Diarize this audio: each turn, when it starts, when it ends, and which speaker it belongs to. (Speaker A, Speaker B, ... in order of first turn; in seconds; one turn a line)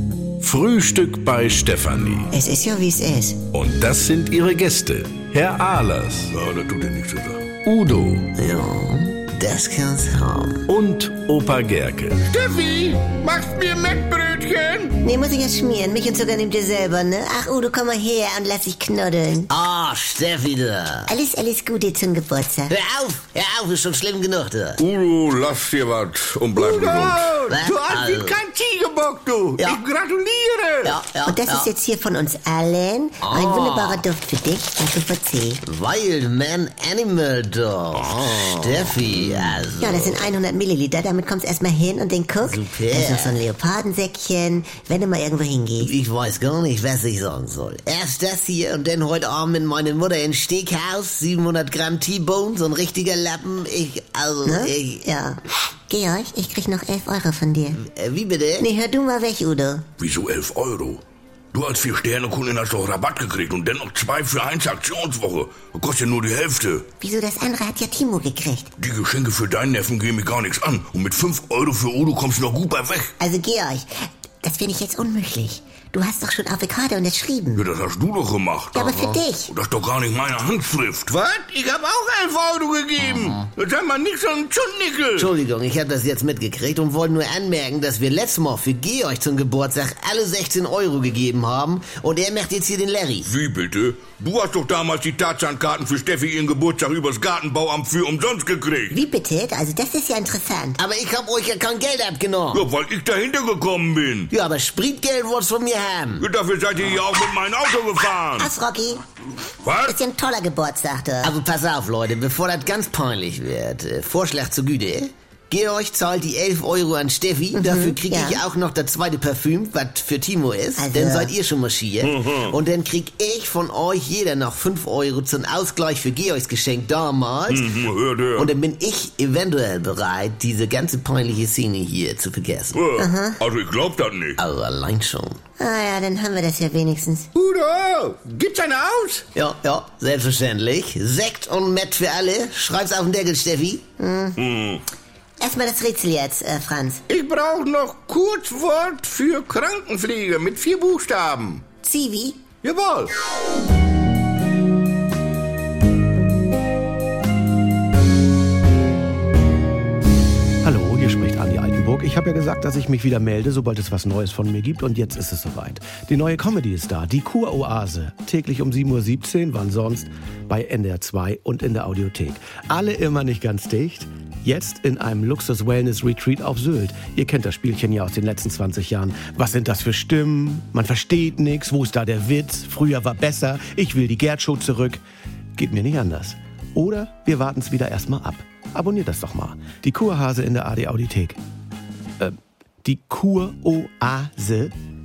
Speaker A: 0.4-2.3
Speaker B: 2.3-3.4
Speaker A: 3.5-6.3
Speaker C: 6.3-7.6
Speaker A: 7.7-8.3
Speaker D: 8.3-10.7
Speaker A: 10.7-12.3
Speaker C: 12.3-14.8
Speaker E: 12.4-14.9
Speaker B: 15.0-19.5
Speaker D: 19.5-21.1
Speaker B: 21.1-22.7
Speaker D: 22.7-24.8
Speaker C: 24.8-30.9
Speaker E: 26.6-28.1
Speaker D: 27.4-28.4
Speaker E: 28.6-30.9
Speaker D: 30.9-31.7
Speaker B: 31.3-35.6
Speaker D: 33.2-34.0
Speaker D: 35.6-40.2
Speaker B: 39.8-45.9
Speaker D: 42.4-43.4
Speaker D: 45.8-55.0
Speaker B: 54.5-55.4
Speaker B: 55.9-57.8
Speaker D: 57.8-58.7
Speaker B: 58.6-59.9
Speaker C: 60.0-61.0
Speaker C: 61.5-66.9
Speaker B: 67.0-68.7
Speaker C: 68.8-73.1
Speaker B: 73.2-73.9
Speaker B: 74.4-77.7
Speaker C: 77.6-85.3
Speaker B: 78.7-79.5
Speaker E: 81.9-82.9
Speaker D: 85.2-93.3
Speaker C: 93.2-99.0
Speaker B: 98.9-100.8
Speaker D: 100.8-102.7
Speaker C: 102.5-104.3
Speaker D: 104.3-106.3
Speaker C: 106.2-108.5
Speaker B: 108.4-109.0
Speaker C: 109.6-110.0
Speaker B: 109.8-111.3
Speaker D: 111.2-127.8
Speaker B: 117.6-118.4
Speaker B: 120.8-121.3
Speaker C: 122.0-122.5
Speaker C: 127.5-128.5
Speaker D: 128.4-132.8
Speaker C: 132.7-134.4
Speaker B: 133.0-133.4
Speaker D: 134.4-135.4
Speaker B: 135.6-137.3
Speaker C: 137.3-138.4
Speaker E: 137.4-139.2
Speaker D: 139.3-143.8
Speaker B: 144.0-144.4
Speaker C: 144.4-144.8
Speaker B: 145.4-147.0
Speaker C: 147.1-151.6
Speaker E: 147.1-151.6
Speaker B: 151.8-152.4
Speaker C: 152.6-153.1
Speaker E: 152.7-153.1
Speaker F: 160.6-185.0
Speaker F: 185.6-191.4
Speaker F: 192.2-194.7